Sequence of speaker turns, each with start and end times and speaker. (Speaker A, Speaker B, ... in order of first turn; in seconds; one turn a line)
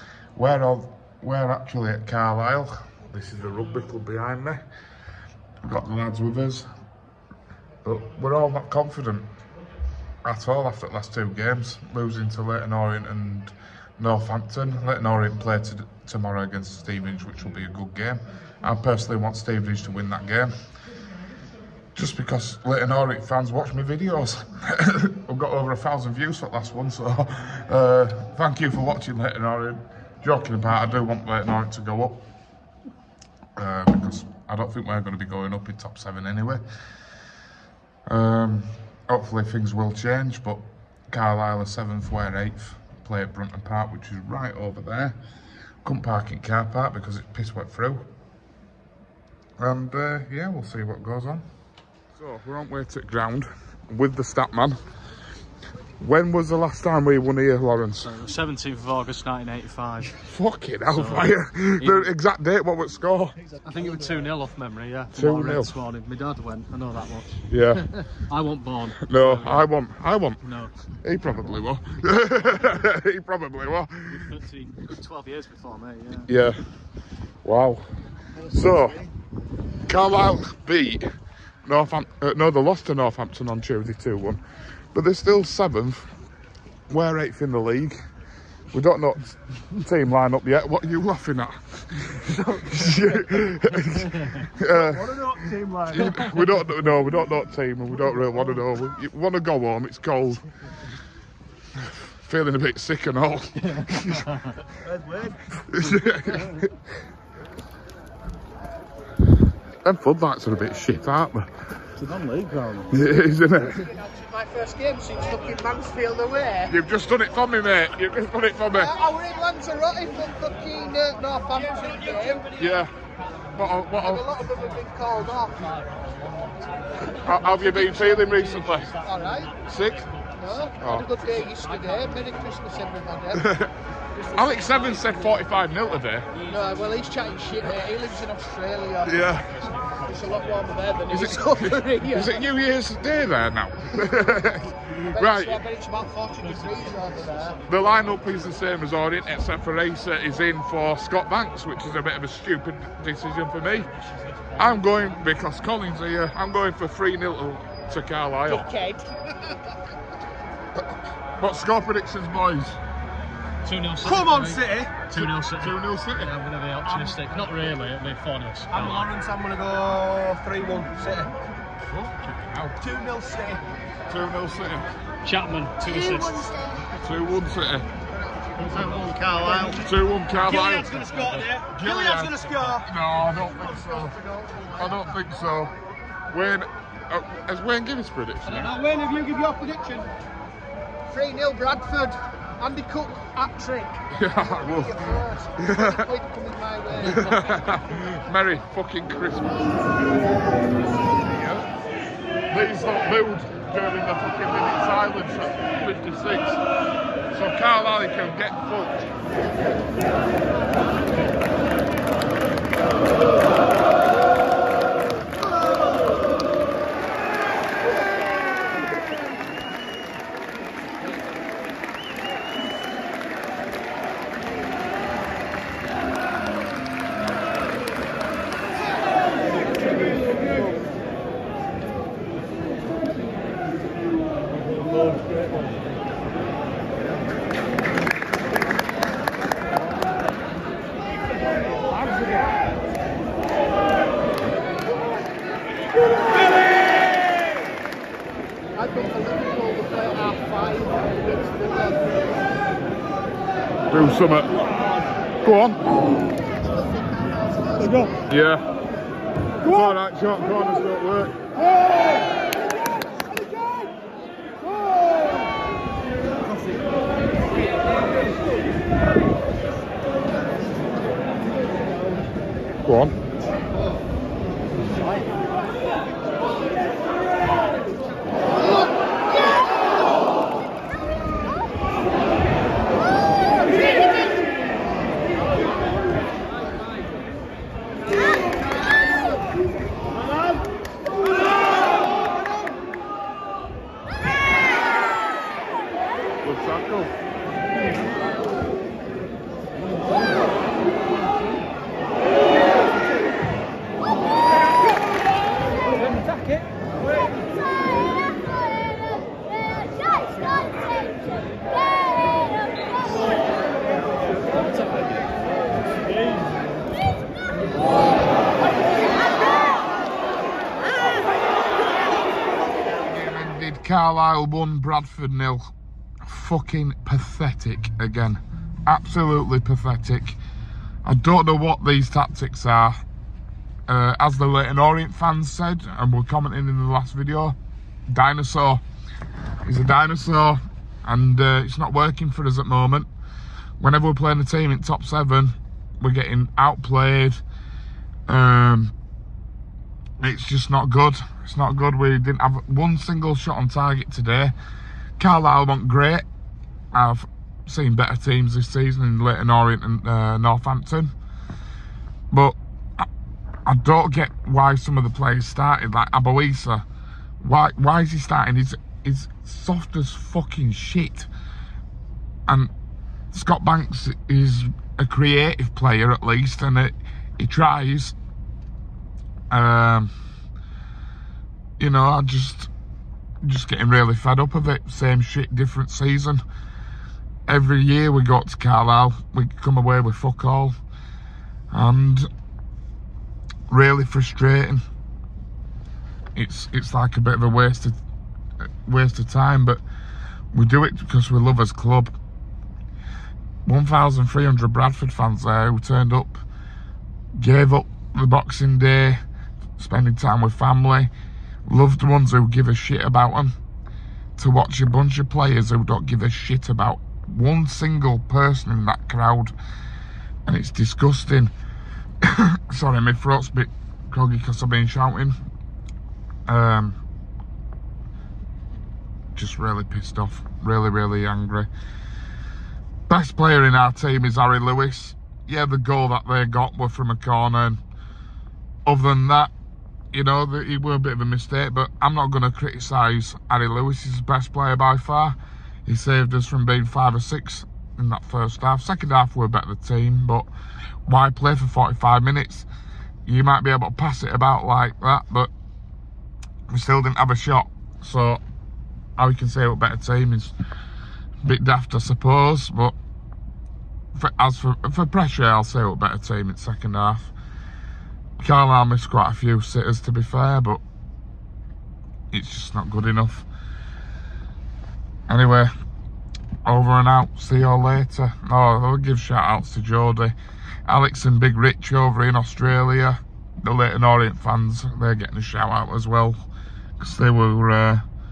Speaker A: 0.3-4.6
Speaker A: 5.6-6.7
Speaker A: 7.8-9.3
Speaker A: 10.2-20.5
Speaker A: 21.9-32.2
Speaker A: 33.5-36.6
Speaker A: 38.1-45.2
Speaker A: 45.8-48.0
Speaker A: 49.6-51.4
Speaker A: 52.1-54.8
Speaker A: 56.0-58.1
Speaker B: 58.0-60.1
Speaker A: 60.1-63.4
Speaker B: 60.9-62.1
Speaker B: 63.6-69.7
Speaker A: 65.1-65.7
Speaker A: 67.5-68.0
Speaker A: 69.0-70.4
Speaker B: 70.4-70.7
Speaker A: 71.0-74.3
Speaker B: 74.1-76.3
Speaker A: 76.3-76.6
Speaker A: 77.4-77.8
Speaker A: 78.5-79.0
Speaker A: 79.9-81.0
Speaker A: 81.7-84.4
Speaker A: 84.9-86.1
Speaker A: 86.9-88.0
Speaker A: 88.7-100.4
Speaker B: 95.2-96.4
Speaker A: 102.1-104.4
Speaker B: 104.1-105.3
Speaker A: 105.6-106.7
Speaker A: 109.8-111.5
Speaker B: 112.0-113.0
Speaker A: 112.9-113.9
Speaker C: 113.7-116.7
Speaker A: 116.7-118.9
Speaker C: 118.7-122.5
Speaker A: 122.5-122.9
Speaker A: 123.5-124.3
Speaker C: 123.9-125.8
Speaker B: 125.8-129.2
Speaker A: 127.1-128.9
Speaker C: 127.7-128.3
Speaker C: 129.0-129.5
Speaker A: 129.7-130.1
Speaker C: 130.4-133.5
Speaker A: 130.8-131.1
Speaker B: 131.5-132.0
Speaker A: 133.3-133.7
Speaker C: 134.1-135.5
Speaker A: 134.3-136.3
Speaker C: 136.4-139.4
Speaker A: 139.0-139.6
Speaker C: 140.0-142.5
Speaker A: 141.1-145.6
Speaker C: 145.0-147.6
Speaker A: 147.7-153.9
Speaker A: 154.5-158.7
Speaker C: 158.5-159.6
Speaker A: 160.8-162.8
Speaker B: 163.6-169.1
Speaker C: 164.0-165.0
Speaker A: 165.1-166.3
Speaker C: 168.7-171.3
Speaker A: 172.2-172.8
Speaker C: 172.8-173.6
Speaker A: 174.1-174.9
Speaker B: 175.2-176.4
Speaker C: 175.8-176.9
Speaker A: 176.9-177.9
Speaker C: 178.3-179.9
Speaker B: 178.6-179.9
Speaker A: 179.7-180.9
Speaker C: 180.4-182.8
Speaker B: 180.5-181.6
Speaker A: 181.7-184.2
Speaker C: 183.4-185.0
Speaker A: 184.8-185.7
Speaker A: 186.3-188.7
Speaker C: 188.5-190.1
Speaker C: 191.1-197.8
Speaker A: 194.1-196.1
Speaker A: 197.0-199.9
Speaker A: 201.0-201.7
Speaker A: 202.5-206.6
Speaker A: 207.3-209.1
Speaker C: 248.7-252.6
Speaker A: 253.9-254.6
Speaker A: 255.4-255.8
Speaker C: 256.5-258.2
Speaker A: 258.2-258.6
Speaker A: 259.6-261.5
Speaker A: 272.8-273.1
Speaker B: 274.9-275.3
Speaker A: 296.4-297.1
Speaker A: 322.9-325.7
Speaker A: 326.2-330.4
Speaker A: 331.0-333.0
Speaker A: 333.9-337.6
Speaker A: 338.1-338.8
Speaker A: 339.6-343.1
Speaker A: 343.8-347.4
Speaker A: 348.3-348.9
Speaker A: 350.2-354.5
Speaker A: 355.2-356.2
Speaker A: 356.9-361.1
Speaker A: 362.3-363.1
Speaker A: 363.6-366.8
Speaker A: 367.4-371.3
Speaker A: 373.3-378.1
Speaker A: 379.5-380.1
Speaker A: 381.8-382.7
Speaker A: 383.4-386.4
Speaker A: 387.5-390.8
Speaker A: 391.7-392.3
Speaker A: 393.7-394.8
Speaker A: 396.3-398.0
Speaker A: 398.8-399.8
Speaker A: 400.5-402.1
Speaker A: 403.6-406.4
Speaker A: 407.4-409.2
Speaker A: 409.8-411.1
Speaker A: 411.6-413.5
Speaker A: 414.4-419.5
Speaker A: 420.4-421.5
Speaker A: 422.2-425.3
Speaker A: 426.5-427.0
Speaker A: 429.3-431.7
Speaker A: 433.1-437.8
Speaker A: 438.9-439.5
Speaker A: 440.1-450.5
Speaker A: 451.1-452.7
Speaker A: 453.2-455.5
Speaker A: 456.7-458.4
Speaker A: 459.2-460.5
Speaker A: 461.4-462.9
Speaker A: 464.1-467.3
Speaker A: 468.4-470.8
Speaker A: 472.3-473.5
Speaker A: 475.3-475.7
Speaker A: 476.6-480.3
Speaker A: 480.9-486.4
Speaker A: 487.0-488.0